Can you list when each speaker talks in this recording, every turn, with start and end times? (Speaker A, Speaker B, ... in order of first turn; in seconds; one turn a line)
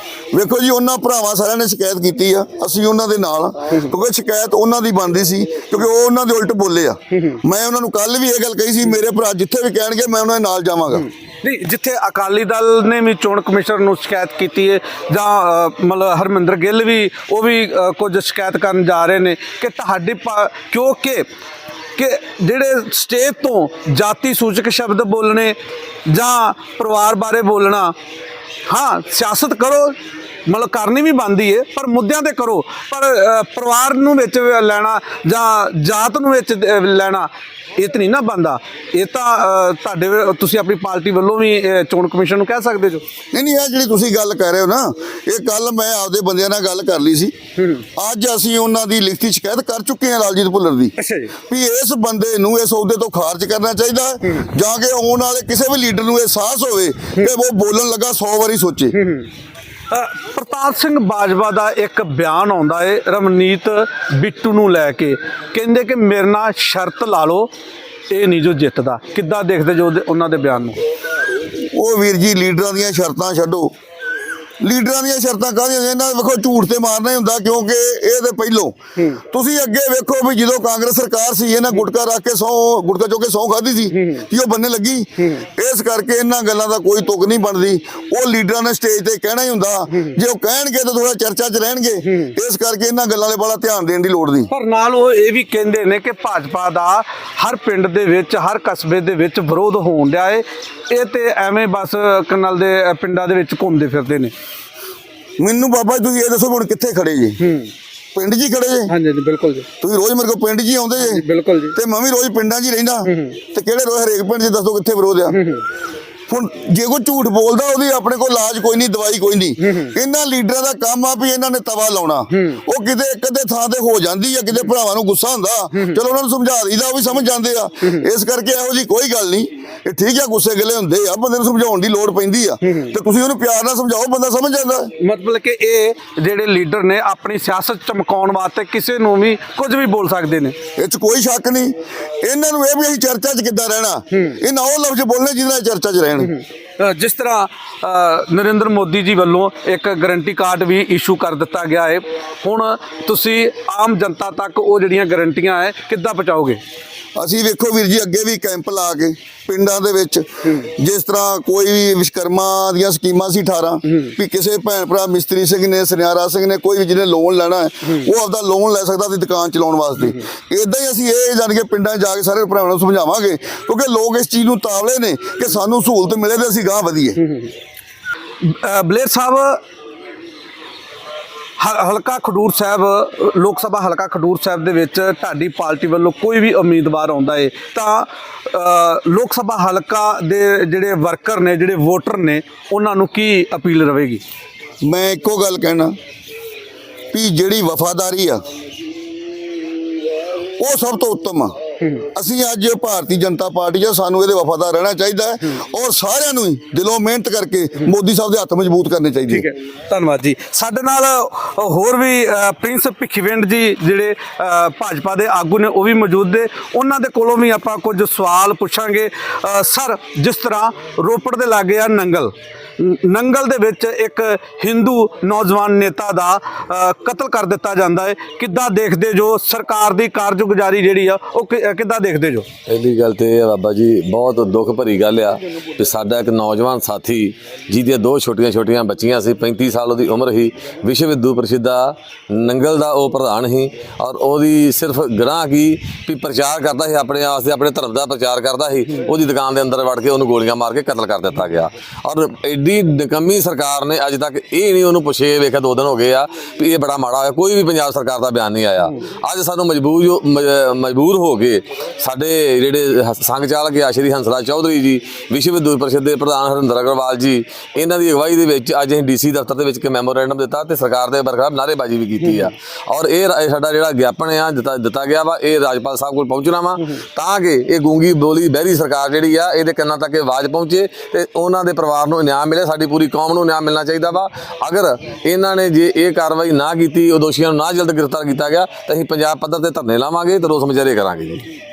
Speaker A: 0.3-11.1
Speaker B: 11.4-21.3
Speaker B: 22.0-27.9
Speaker B: 28.7-29.9
Speaker B: 30.5-43.0
Speaker A: 43.3-47.3
Speaker B: 47.6-47.8
Speaker A: 48.0-50.9
Speaker B: 51.0-51.3
Speaker A: 51.5-58.9
Speaker B: 59.0-59.3
Speaker B: 59.9-67.5
Speaker B: 68.1-70.8
Speaker A: 71.6-73.7
Speaker A: 74.6-78.8
Speaker A: 79.3-94.5
Speaker B: 94.5-104.3
Speaker A: 105.4-107.4
Speaker B: 107.4-107.7
Speaker A: 108.1-108.9
Speaker B: 108.9-109.7
Speaker A: 109.8-115.4
Speaker B: 111.0-111.8
Speaker B: 113.1-113.4
Speaker B: 115.3-115.7
Speaker A: 116.3-134.9
Speaker B: 119.6-119.9
Speaker B: 135.0-140.6
Speaker A: 140.8-146.3
Speaker B: 146.2-156.6
Speaker A: 157.2-177.2
Speaker B: 178.4-179.6
Speaker B: 181.6-194.2
Speaker A: 194.8-195.9
Speaker A: 197.1-198.4
Speaker A: 200.6-201.5
Speaker A: 202.1-209.5
Speaker B: 209.3-232.5
Speaker C: 232.7-291.4